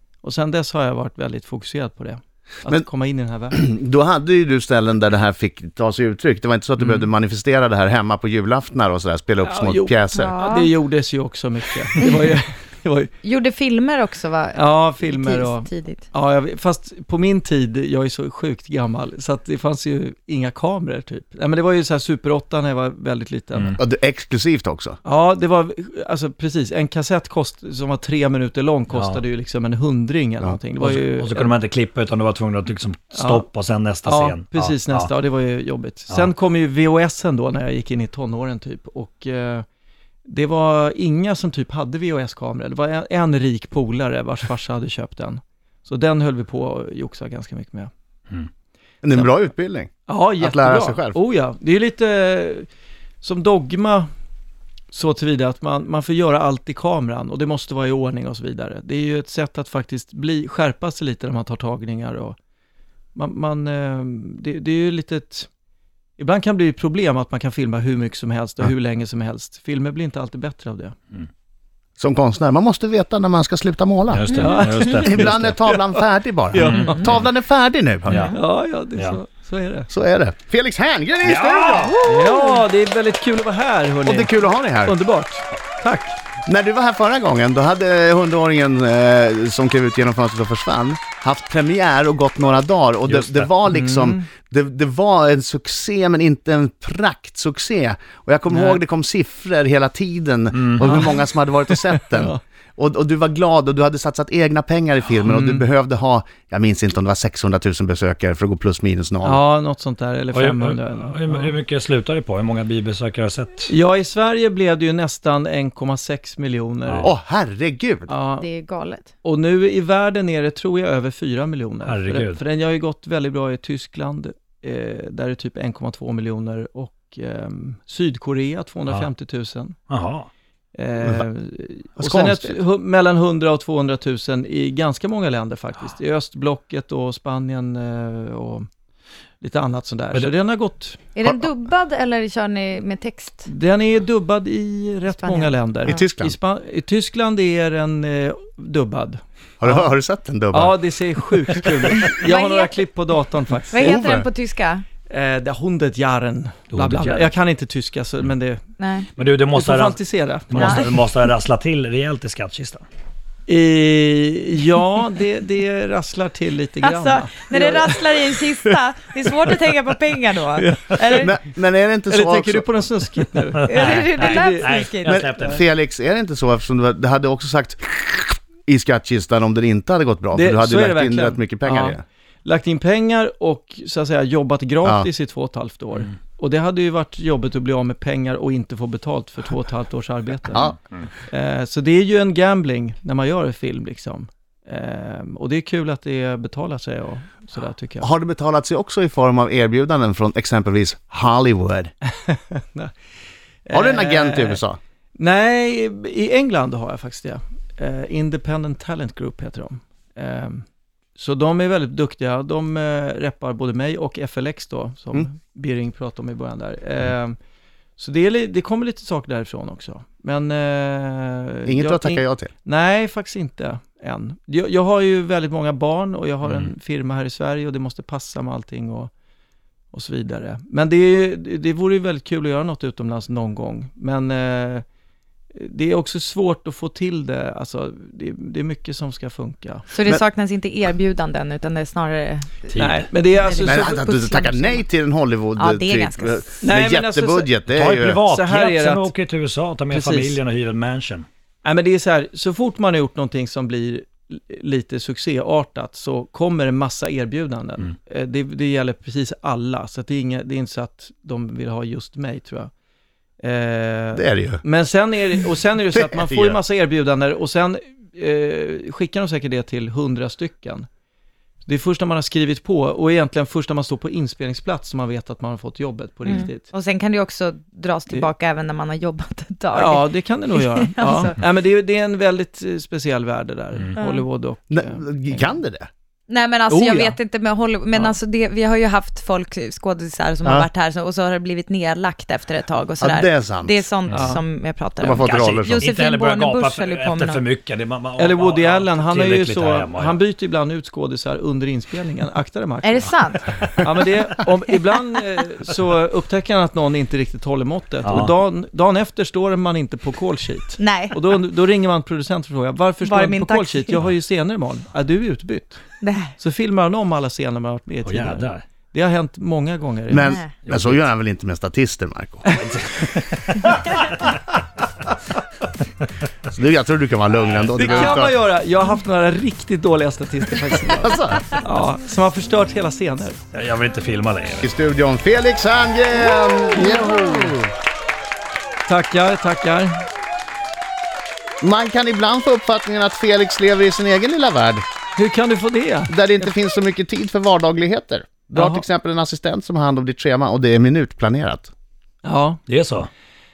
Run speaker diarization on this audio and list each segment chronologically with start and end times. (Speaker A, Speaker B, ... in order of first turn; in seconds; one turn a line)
Speaker A: 0.2-3.6
Speaker B: 3.5-10.3
Speaker A: 6.8-7.1
Speaker A: 9.4-13.1
Speaker C: 10.1-10.7
Speaker C: 13.2-16.0
Speaker A: 14.5-23.8
Speaker B: 23.8-25.0
Speaker A: 25.0-31.5
Speaker D: 28.9-29.2
Speaker D: 30.8-35.1
Speaker A: 33.1-33.5
Speaker A: 34.0-39.6
Speaker A: 40.2-47.9
Speaker B: 49.0-51.1
Speaker A: 50.1-52.7
Speaker A: 53.2-54.1
Speaker A: 54.9-62.4
Speaker A: 63.1-65.5
Speaker A: 66.2-71.0
Speaker B: 72.0-78.3
Speaker D: 74.1-75.5
Speaker C: 74.3-75.0
Speaker A: 74.4-75.9
Speaker A: 76.5-77.1
Speaker D: 76.5-77.3
Speaker D: 78.1-78.3
Speaker A: 78.1-79.9
Speaker B: 79.9-82.0
Speaker D: 81.2-82.0
Speaker C: 81.8-82.6
Speaker A: 82.0-86.2
Speaker B: 84.0-85.0
Speaker B: 86.5-109.4
Speaker D: 93.1-93.5
Speaker A: 93.6-94.2
Speaker A: 98.5-98.8
Speaker D: 100.5-101.0
Speaker A: 100.8-102.4
Speaker A: 105.3-105.6
Speaker A: 109.2-111.5
Speaker D: 110.3-113.7
Speaker A: 113.7-117.1
Speaker D: 116.9-117.1
Speaker B: 117.0-118.1
Speaker A: 118.1-118.5
Speaker C: 118.4-119.1
Speaker A: 119.2-129.8
Speaker D: 121.8-122.4
Speaker D: 129.9-130.3
Speaker A: 130.7-138.7
Speaker B: 132.0-132.5
Speaker A: 139.4-141.0
Speaker C: 141.2-143.5
Speaker A: 143.4-149.9
Speaker C: 145.1-145.5
Speaker B: 145.8-146.3
Speaker B: 149.6-150.8
Speaker A: 150.5-154.0
Speaker C: 152.1-152.7
Speaker C: 153.7-154.8
Speaker B: 153.8-154.3
Speaker A: 155.1-158.6
Speaker D: 156.7-157.3
Speaker C: 158.8-159.1
Speaker D: 159.2-162.8
Speaker A: 159.5-160.9
Speaker C: 160.5-160.9
Speaker A: 163.5-168.7
Speaker C: 166.8-171.3
Speaker A: 169.3-169.6
Speaker A: 170.6-171.3
Speaker B: 171.1-172.7
Speaker A: 172.1-174.8
Speaker C: 173.6-175.2
Speaker D: 173.7-175.6
Speaker B: 175.0-182.0
Speaker A: 180.3-190.7
Speaker B: 190.5-190.8
Speaker A: 191.3-198.1
Speaker B: 198.0-201.9
Speaker A: 202.2-202.9
Speaker A: 203.7-204.6
Speaker B: 203.7-204.8
Speaker A: 205.2-210.6
Speaker A: 211.2-217.3
Speaker A: 218.0-229.1
Speaker B: 221.7-222.5
Speaker D: 226.4-226.7
Speaker A: 229.9-234.8
Speaker A: 235.5-239.9
Speaker C: 239.9-242.5
Speaker D: 242.7-243.0
Speaker A: 242.7-244.0
Speaker C: 243.4-244.8
Speaker B: 243.6-248.2
Speaker C: 245.6-246.4
Speaker A: 246.6-247.5
Speaker D: 247.7-251.2
Speaker A: 248.2-249.1
Speaker A: 249.9-250.4
Speaker A: 251.6-262.7
Speaker A: 263.4-270.9
Speaker B: 264.1-264.6
Speaker B: 265.9-266.6
Speaker A: 271.6-276.7
Speaker C: 276.2-281.4
Speaker A: 279.7-285.6
Speaker C: 284.0-284.2
Speaker B: 284.7-285.9
Speaker C: 286.3-297.4
Speaker A: 286.7-287.2
Speaker B: 293.0-293.8
Speaker A: 294.1-294.4
Speaker B: 295.0-295.9
Speaker D: 295.1-300.2
Speaker A: 298.2-303.1
Speaker C: 302.8-303.6
Speaker A: 303.8-315.8
Speaker D: 308.0-308.3
Speaker C: 310.8-311.2
Speaker C: 313.0-314.0
Speaker C: 316.0-316.3
Speaker A: 316.4-320.3
Speaker D: 318.1-318.6
Speaker B: 320.1-322.6
Speaker C: 320.1-320.5
Speaker D: 320.6-321.0
Speaker A: 322.5-322.8
Speaker D: 322.6-324.2
Speaker B: 326.5-328.4
Speaker A: 327.8-333.4
Speaker B: 330.9-331.4
Speaker D: 333.5-334.7
Speaker B: 334.6-337.7
Speaker C: 336.3-337.4
Speaker A: 336.7-337.5
Speaker A: 338.9-340.0
Speaker B: 341.6-344.8
Speaker A: 345.2-346.5
Speaker B: 346.1-351.7
Speaker A: 348.5-348.8
Speaker A: 352.2-352.6
Speaker D: 352.7-353.1